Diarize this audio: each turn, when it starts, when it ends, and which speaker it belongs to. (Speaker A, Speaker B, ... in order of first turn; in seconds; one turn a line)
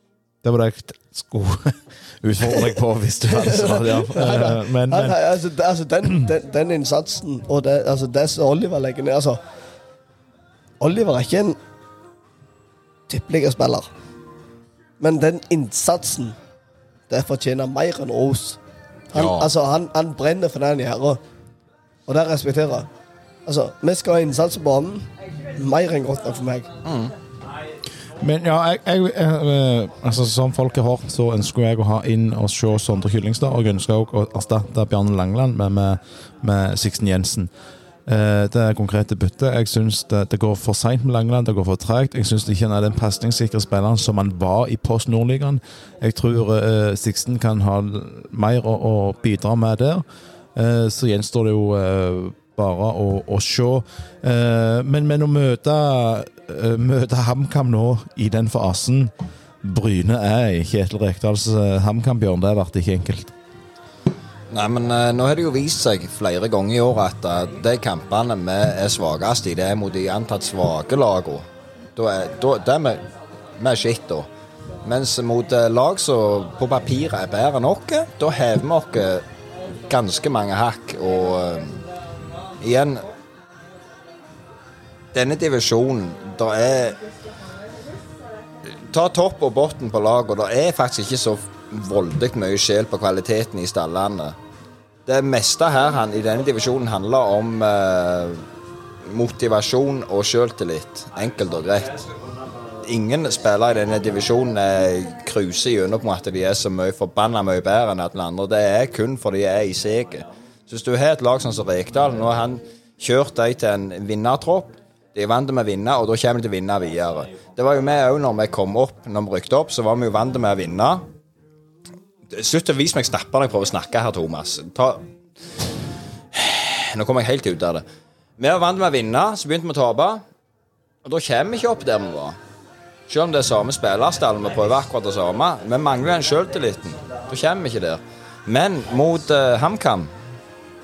Speaker A: 0.4-5.2
Speaker B: 3.3-9.4
Speaker B: 10.8-11.6
Speaker B: 13.1-13.9
Speaker B: 15.0-16.4
Speaker B: 17.1-18.6
Speaker C: 19.1-19.5
Speaker B: 19.1-21.2
Speaker B: 22.1-22.9
Speaker B: 23.5-26.7
Speaker C: 26.9-27.1
Speaker A: 28.2-37.5
Speaker A: 38.1-63.3
Speaker C: 64.5-74.3
Speaker C: 74.8-79.3
Speaker C: 79.9-81.9
Speaker C: 82.6-83.1
Speaker C: 85.1-87.0
Speaker C: 88.6-94.4
Speaker C: 95.1-98.5
Speaker C: 99.0-102.0
Speaker C: 102.8-121.1
Speaker C: 122.3-125.0
Speaker C: 126.3-127.8
Speaker C: 128.4-130.2
Speaker C: 131.0-132.4
Speaker C: 133.1-140.1